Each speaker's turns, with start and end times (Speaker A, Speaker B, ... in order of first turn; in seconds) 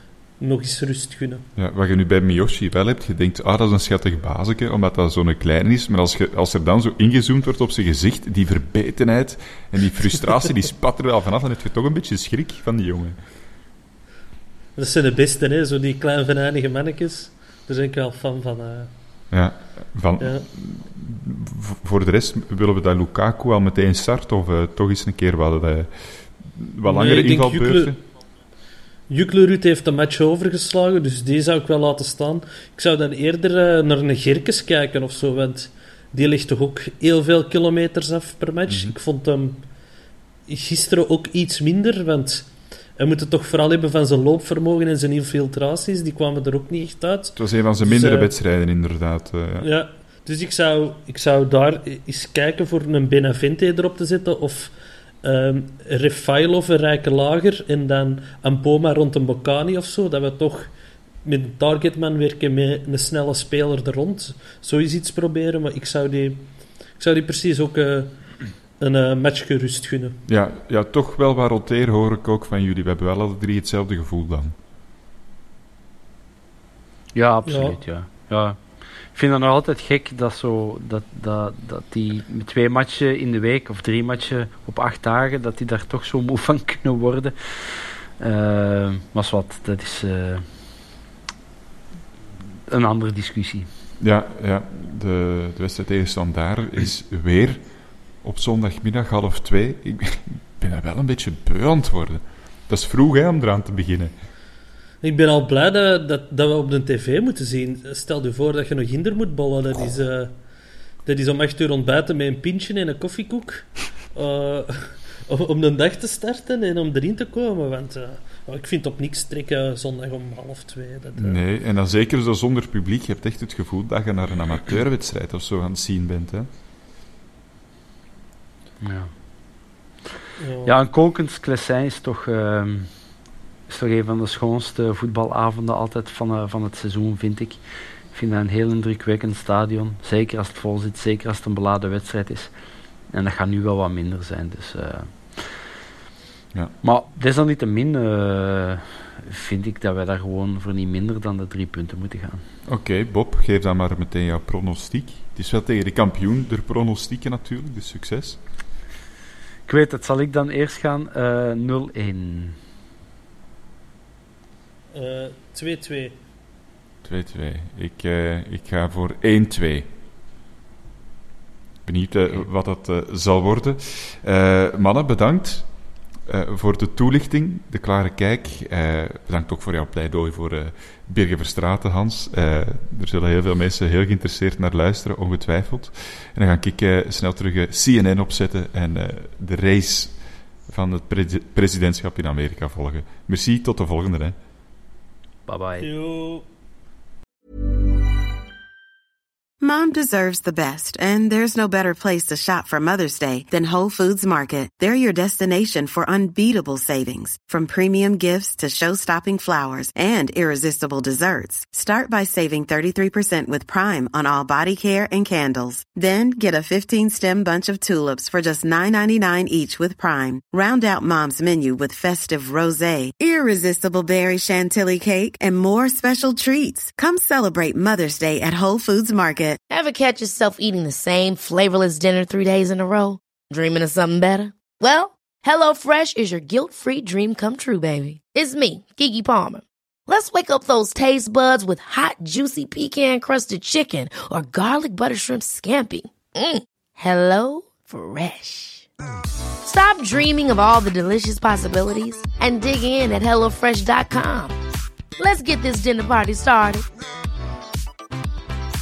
Speaker A: 0.4-1.4, 14.8-18.9, 20.2-20.5, 26.9-27.9, 29.1-39.6, 40.5-48.3, 49.6-60.7, 61.2-66.5, 67.0-68.1, 68.8-70.2, 77.5-77.8, 105.0-110.3, 111.0-121.4, 130.4-130.8, 164.9-166.2, 195.8-196.4
Speaker B: 1.6-13.2, 19.3-28.0, 38.7-39.0, 47.4-49.7, 70.3-74.5, 94.0-97.6, 98.2-104.1, 121.2-126.5, 152.7-158.4, 167.0-169.9, 171.9-175.7, 176.3-190.1, 190.7-194.4
Speaker C: 77.1-90.5, 92.7-93.7, 128.8-129.1, 130.7-132.9, 133.7-137.6, 138.1-142.5, 143.1-145.5, 146.8-152.4, 159.7-162.6, 195.5-195.9
Speaker D: 199.6-229.6
Speaker E: 229.7-248.9, 249.6-254.6, 255.2-256.9